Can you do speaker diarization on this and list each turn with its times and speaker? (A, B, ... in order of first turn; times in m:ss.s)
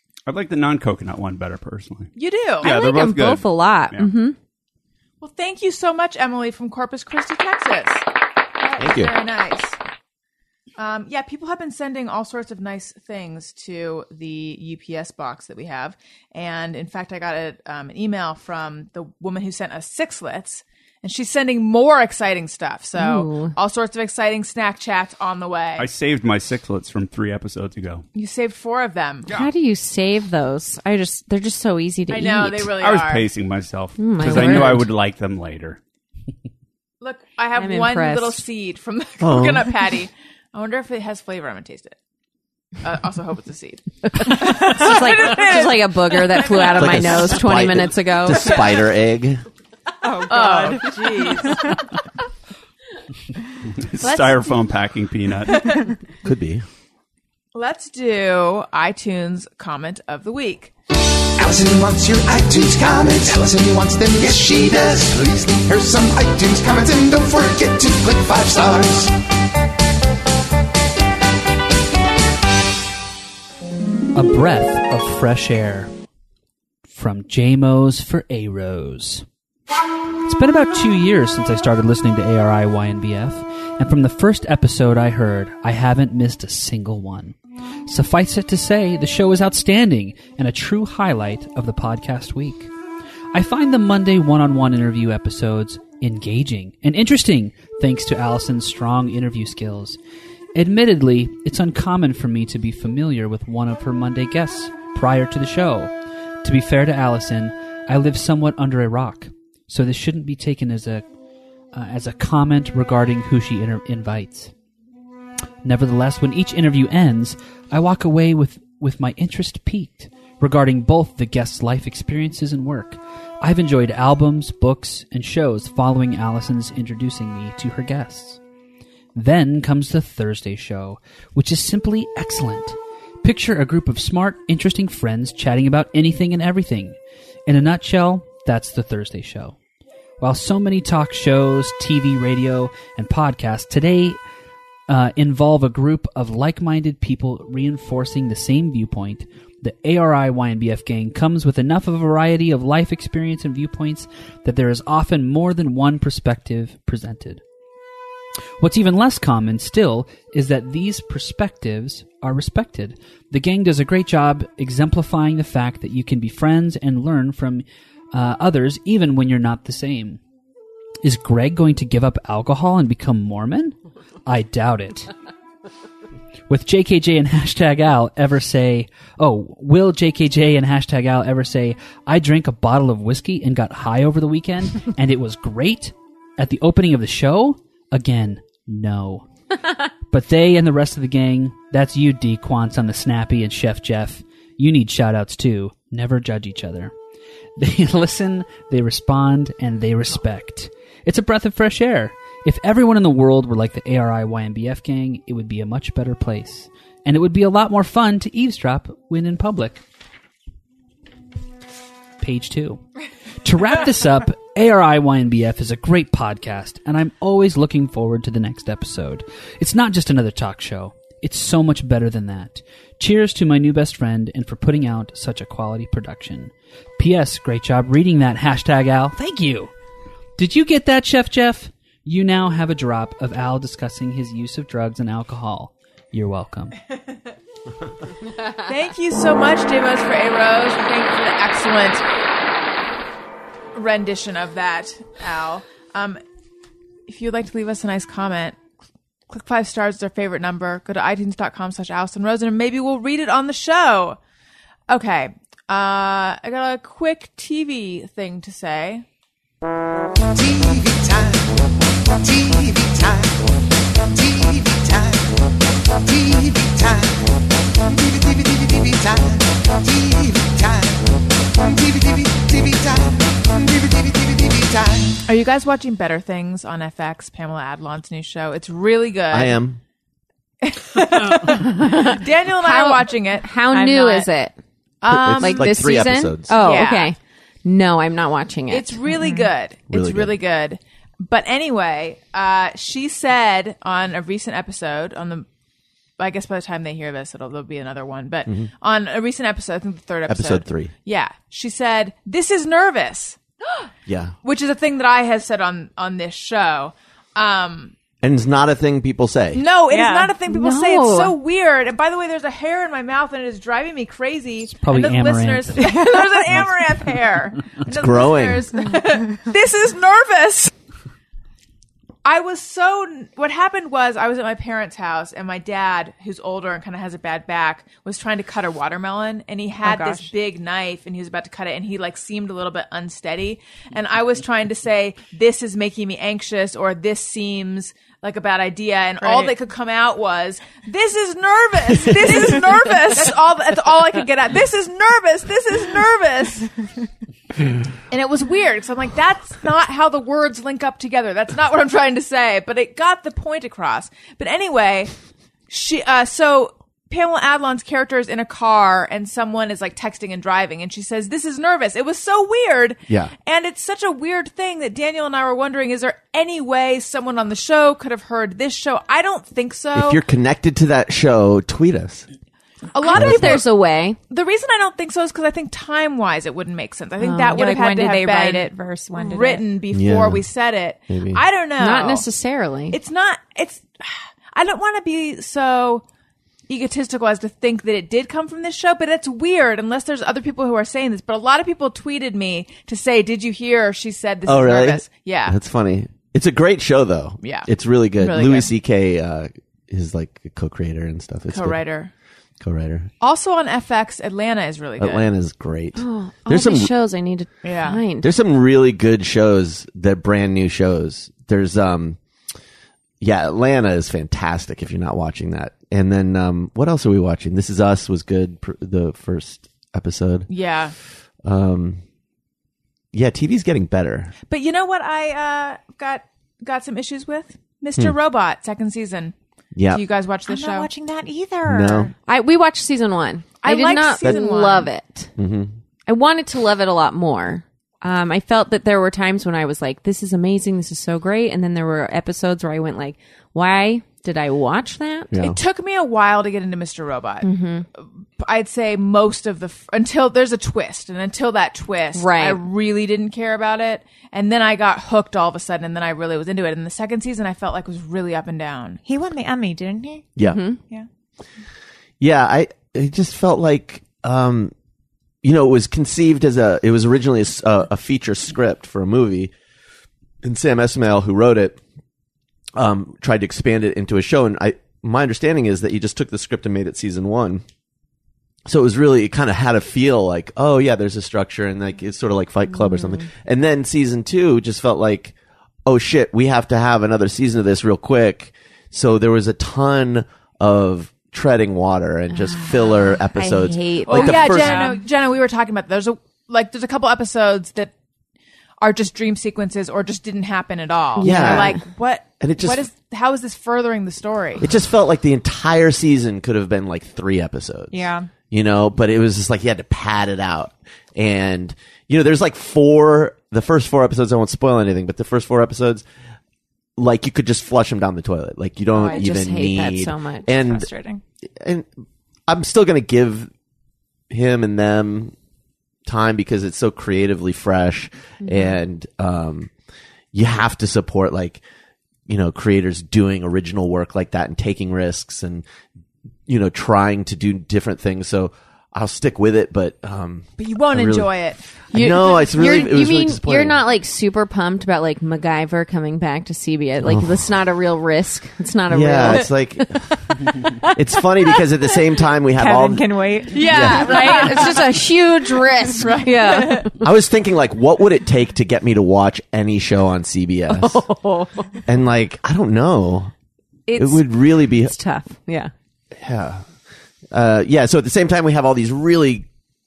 0:00.3-0:04.1 A
0:02.2-0:02.7 B
0:02.6-0:04.4 C
0:05.2-0:08.0 B
0:08.6-0:09.8 B
0:08.8-0:09.1 D
0:10.8-0:25.9 B
0:23.0-0:23.5 C
0:25.8-0:28.0 A
0:28.1-0:29.4 B
0:29.3-0:32.8 C
0:32.1-0:33.3 B
0:32.8-0:35.8 A
0:34.0-0:34.9 C
0:37.0-0:42.0 B
0:37.5-0:38.4 C
0:39.2-0:39.7 D
0:42.8-0:47.2 B
0:44.1-0:48.8 C
0:46.7-0:49.4 D
0:50.0-0:51.8 E
0:50.3-0:51.8 B
0:53.8-0:55.9 A
0:54.0-0:54.5 B
0:55.5-0:55.9 B
0:56.2-0:56.6 D
0:57.5-1:00.7 B
1:01.4-1:09.1 F
1:14.1-1:15.9 G
1:16.9-1:19.2 G
1:20.2-1:27.4 G
1:27.9-1:32.7 G
1:33.3-1:40.0 G
1:40.5-1:45.9 G
1:46.4-1:51.0 G
1:51.7-1:54.5 G
1:55.6-2:08.4 G
2:09.1-2:19.6 G
2:20.2-2:24.2 G
2:24.9-2:37.4 G
2:38.6-2:50.2 G
2:51.0-2:55.1 G
2:56.5-3:09.3 G
3:10.1-3:16.9 G
3:17.6-3:29.8 G
3:32.2-3:32.8 G
3:33.4-3:49.7 G
3:50.4-3:56.8 G
3:58.6-4:02.0 B
4:03.7-4:06.2 B
4:07.1-4:08.6 B
4:09.3-4:14.2 B
4:14.9-4:19.0 B
4:20.3-4:25.4 F
4:26.0-4:35.2 F
4:35.2-4:39.6 B
4:39.3-4:39.8 D
4:40.6-4:44.2 B
4:41.4-4:44.6 C
4:43.7-4:44.2 E
4:45.0-4:45.7 B
4:45.1-4:46.6 D
4:45.2-4:49.0 C
4:46.5-4:47.1 B
4:48.7-4:55.4 B
4:49.2-4:49.5 E
4:49.9-4:50.4 D
4:56.2-5:03.4 B
5:00.3-5:00.9 D
5:04.0-5:04.3 D
5:04.4-5:08.0 B
5:08.2-5:09.6 D
5:09.5-5:20.7 B
5:09.9-5:10.4 E
5:10.4-5:11.3 C
5:14.7-5:16.0 G
5:17.9-5:18.6 D
5:22.2-5:46.7 B
5:29.8-5:30.3 E
5:39.2-5:39.5 E
5:48.1-5:55.1 B
5:55.7-6:10.2 B
6:09.9-6:12.2 D
6:12.9-6:13.7 B
6:13.0-6:14.2 C
6:13.2-6:13.6 D
6:14.3-6:22.2 B
6:17.2-6:17.6 C
6:17.5-6:19.6 E
6:19.9-6:20.4 D
6:21.1-6:21.4 D
6:21.8-6:23.0 C
6:22.9-6:26.0 B
6:26.7-6:35.6 B
6:34.4-6:41.8 D
6:37.4-6:38.7 B
6:41.5-6:42.1 B
6:42.6-6:43.1 D
6:43.2-6:45.3 B
6:45.0-6:46.9 D
6:45.9-6:48.3 C
6:47.6-6:48.0 B
6:48.2-6:52.2 D
6:53.2-7:00.5 D
7:00.5-7:00.9 B
7:01.4-7:02.0 D
7:03.1-7:04.3 D
7:04.5-7:09.3 B
7:09.7-7:10.0 D
7:09.9-7:10.9 B
7:10.5-7:12.1 E
7:11.7-7:12.1 D
7:12.3-7:15.3 C
7:13.6-7:14.9 B
7:15.4-7:15.7 D
7:16.1-7:25.4 C
7:25.3-7:25.6 D
7:25.4-7:39.0 B
7:27.4-7:27.8 C
7:32.1-7:32.6 C
7:39.0-7:40.3 E
7:40.4-7:40.8 C
7:42.2-7:44.7 D
7:45.4-7:49.5 D
7:50.4-7:51.8 D
7:52.8-7:57.6 D
7:58.6-8:05.3 D
8:02.7-8:03.3 C
8:05.8-8:14.9 D
8:12.3-8:14.8 C
8:14.0-8:17.9 B
8:14.7-8:15.0 E
8:18.8-8:24.7 B
8:21.2-8:21.8 C
8:21.2-8:21.8 D
8:22.4-8:22.8 D
8:24.6-8:36.0 D
8:27.9-8:28.3 E
8:37.0-8:40.9 D
8:38.9-8:40.6 C
8:40.6-8:41.2 E
8:41.5-8:41.9 D
8:42.5-8:43.5 D
8:44.3-8:45.3 D
8:46.0-8:49.7 D
8:48.4-8:48.8 C
8:50.3-8:51.6 D
8:52.3-8:55.6 D
8:56.5-9:01.3 D
9:00.6-9:01.8 B
9:01.9-9:10.0 C
9:01.9-9:03.8 D
9:07.0-9:07.5 D
9:08.9-9:10.0 D
9:10.7-9:11.7 C
9:10.9-9:13.1 D
9:12.5-9:13.6 E
9:13.5-9:16.9 B
9:13.6-9:17.0 C
9:13.6-9:14.1 D
9:17.0-9:21.0 D
9:20.7-9:21.8 C
9:21.9-9:23.3 D
9:23.9-9:25.7 C
9:24.0-9:24.9 D
9:26.1-9:26.7 D
9:27.3-9:29.4 D